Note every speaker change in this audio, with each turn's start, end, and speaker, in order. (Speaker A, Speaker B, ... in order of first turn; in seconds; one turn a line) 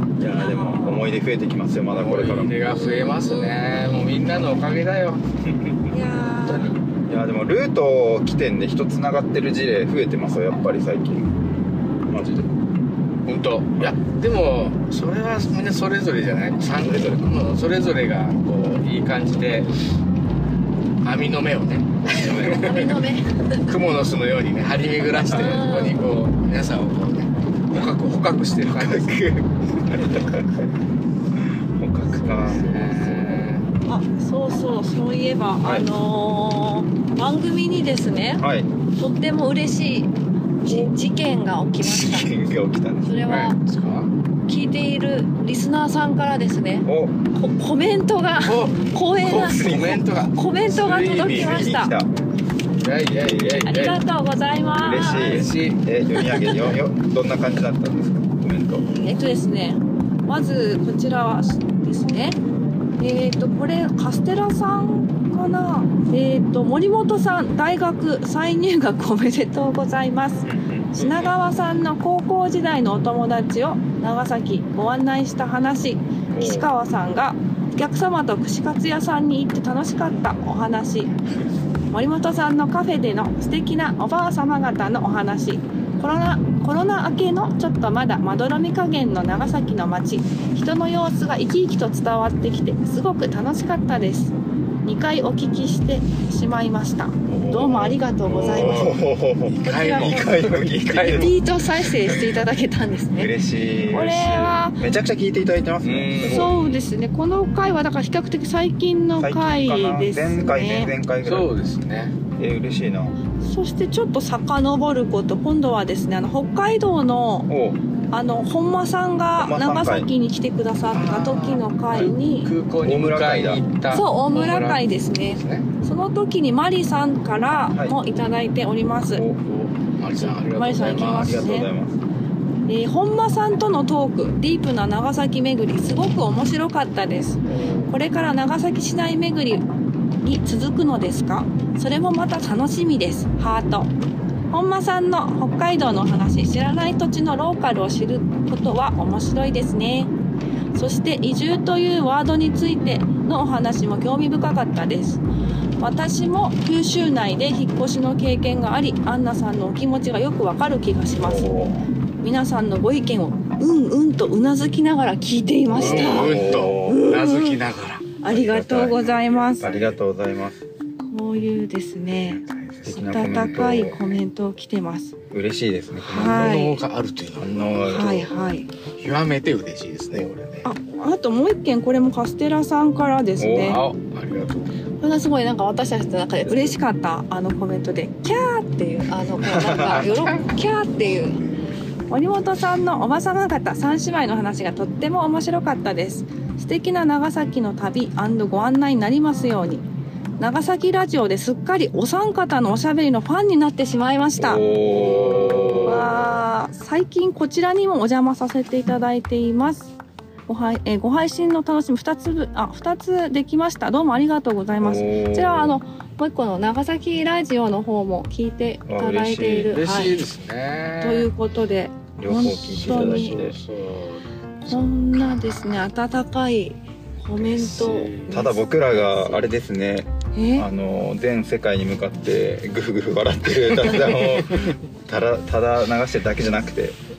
Speaker A: 0.2-2.5
Speaker B: 0.3-1.1
Speaker C: 1.9-5.2
Speaker B: 2.7-3.7
Speaker A: 5.5-5.9
Speaker B: 5.9-6.8
Speaker A: 6.4-11.3
Speaker A: 12.1-12.5
Speaker C: 13.3-19.8
Speaker A: 16.8-17.3
Speaker C: 21.0-23.0
Speaker B: 22.1-23.7
Speaker A: 22.1-22.8
Speaker C: 23.6-29.1
Speaker B: 25.3-26.0
Speaker A: 28.7-30.5
Speaker A: 31.4-33.4
Speaker B: 32.2-33.1
Speaker C: 32.5-33.7
Speaker B: 33.9-38.4
Speaker A: 35.6-35.9
Speaker A: 38.4-38.7
Speaker B: 39.0-40.1
Speaker B: 40.6-42.3
Speaker A: 40.7-40.9
Speaker A: 41.8-43.2
Speaker B: 43.0-43.6
Speaker C: 43.3-44.1
Speaker B: 44.5-51.9
Speaker A: 46.9-47.2
Speaker C: 48.4-51.7
Speaker A: 49.4-50.0
Speaker A: 51.3-52.1
Speaker C: 52.8-54.0
Speaker A: 53.1-53.7
Speaker B: 53.7-55.5
Speaker A: 54.8-58.9
Speaker C: 55.2-55.8
Speaker B: 58.9-62.4
Speaker B: 63.0-81.1
Speaker A: 70.5-71.2
Speaker C: 71.0-71.3
Speaker A: 76.3-76.7
Speaker B: 81.9-94.3
Speaker B: 94.8-99.0
Speaker A: 97.3-101.4
Speaker C: 98.3-101.4
Speaker B: 99.6-100.4
Speaker B: 101.0-103.3
Speaker A: 103.2-106.5
Speaker B: 103.9-104.8
Speaker C: 105.8-106.9
Speaker B: 106.2-110.9
Speaker A: 109.2-111.5
Speaker C: 111.2-112.2
Speaker A: 112.4-113.2
Speaker B: 113.4-117.5
Speaker A: 117.5-117.8
Speaker B: 118.1-122.5
Speaker A: 119.4-120.1
Speaker C: 120.9-125.7
Speaker A: 122.8-123.6
Speaker B: 123.9-129.2
Speaker A: 129.1-129.4
Speaker C: 129.4-131.5
Speaker B: 130.2-131.7
Speaker A: 131.1-132.0
Speaker B: 132.7-139.7
Speaker B: 140.2-143.9
Speaker B: 144.5-150.1
Speaker B: 150.8-155.2
Speaker B: 155.8-161.7
Speaker A: 161.2-161.8
Speaker B: 162.2-167.6
Speaker A: 165.7-167.0
Speaker C: 165.8-168.1
Speaker B: 168.2-169.7
Speaker A: 168.3-170.6
Speaker C: 169.0-170.0
Speaker B: 171.1-175.1
Speaker C: 172.4-172.8
Speaker A: 172.8-174.0
Speaker A: 175.3-176.5
Speaker B: 176.1-176.8
Speaker C: 176.1-178.2
Speaker A: 177.4-178.3
Speaker B: 177.8-178.7
Speaker C: 179.0-180.7
Speaker B: 180.6-183.8
Speaker A: 183.4-183.8
Speaker C: 183.5-184.7
Speaker B: 185.0-191.4
Speaker A: 186.4-186.8
Speaker A: 189.4-190.1
Speaker B: 192.1-199.9
Speaker B: 200.4-204.6
Speaker A: 204.4-206.3
Speaker C: 204.8-206.1
Speaker B: 205.8-209.9
Speaker B: 210.5-220.2
Speaker A: 214.8-215.8
Speaker A: 218.9-219.8
Speaker C: 219.7-221.3
Speaker B: 221.0-223.4
Speaker A: 222.2-223.6
Speaker C: 222.8-225.4
Speaker B: 224.7-229.5
Speaker C: 227.4-228.5
Speaker A: 228.3-237.0
Speaker B: 230.3-230.7
Speaker C: 233.8-234.7